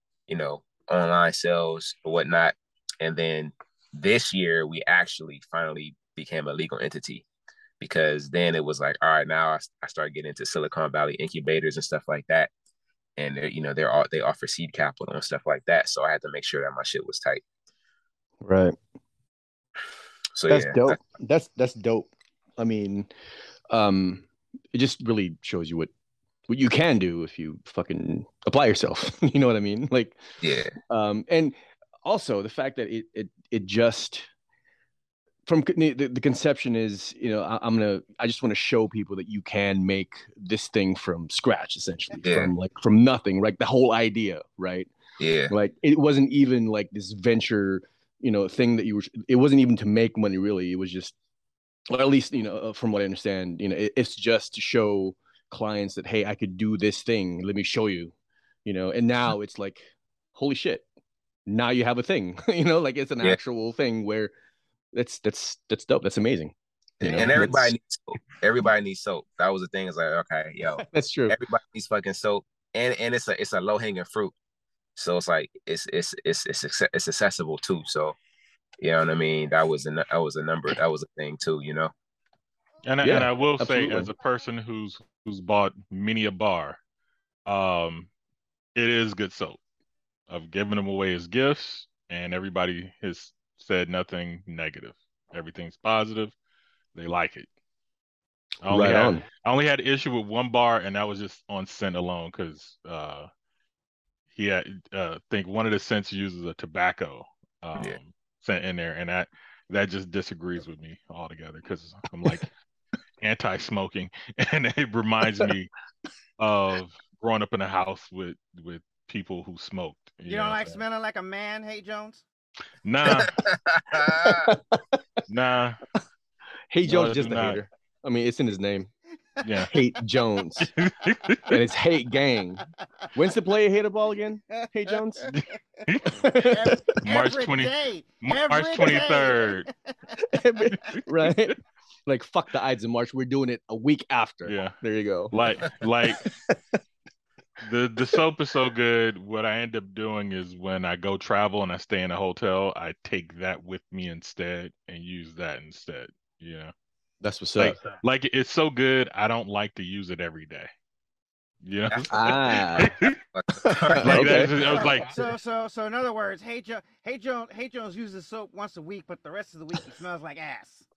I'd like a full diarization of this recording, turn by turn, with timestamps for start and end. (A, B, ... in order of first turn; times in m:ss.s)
0:00.3-0:07.3 A
0:07.8-0:12.5 A
0:13.2-0:17.4 A
0:18.4-0:18.8 B
0:20.4-0:21.0 A
0:20.5-0:23.1 B
0:23.7-0:25.9 B
0:26.5-0:30.2 B
0:30.4-0:30.7 A
0:30.9-0:34.3 B
0:35.5-0:44.9 B
0:42.2-0:42.5 A
0:45.2-0:45.5 A
0:45.5-0:51.2 B
0:51.9-0:58.1 B
0:58.6-1:00.8 B
1:01.5-1:04.3 B
1:04.9-1:07.7 B
1:07.0-1:14.3 A
1:10.8-1:11.4 B
1:15.0-1:18.2 A
1:18.8-1:21.9 A
1:22.9-1:26.8 C
1:23.0-1:24.1 B
1:27.5-1:28.1 C
1:28.8-1:29.6 C
1:30.3-1:36.4 C
1:37.0-1:37.5 C
1:38.6-1:43.3 C
1:38.7-1:39.2 B
1:44.4-1:52.5 C
1:53.2-1:55.7 C
1:56.4-2:00.8 C
2:00.3-2:02.2 D
2:02.8-2:03.3 C
2:03.1-2:04.5 A
2:04.1-2:05.0 B
2:05.3-2:05.8 C
2:06.7-2:08.9 B
2:06.8-2:07.6 C
2:09.4-2:09.8 C
2:09.7-2:10.7 B
2:10.6-2:11.6 C
2:11.5-2:15.3 B
2:15.9-2:16.2 C
2:16.1-2:16.8 B
2:16.4-2:20.0 D
2:17.0-2:19.7 C
2:20.3-2:25.3 B
2:20.9-2:21.4 C
2:24.4-2:24.8 C
2:25.3-2:26.2 C
2:26.2-2:26.6 B
2:27.6-2:36.7 C
2:37.2-2:37.8 B
2:37.6-2:40.7 C
2:41.6-2:43.2 C
2:41.9-2:44.7 A
2:42.1-2:42.9 B
2:43.7-2:45.4 B
2:44.0-2:45.1 C
2:44.8-2:50.9 D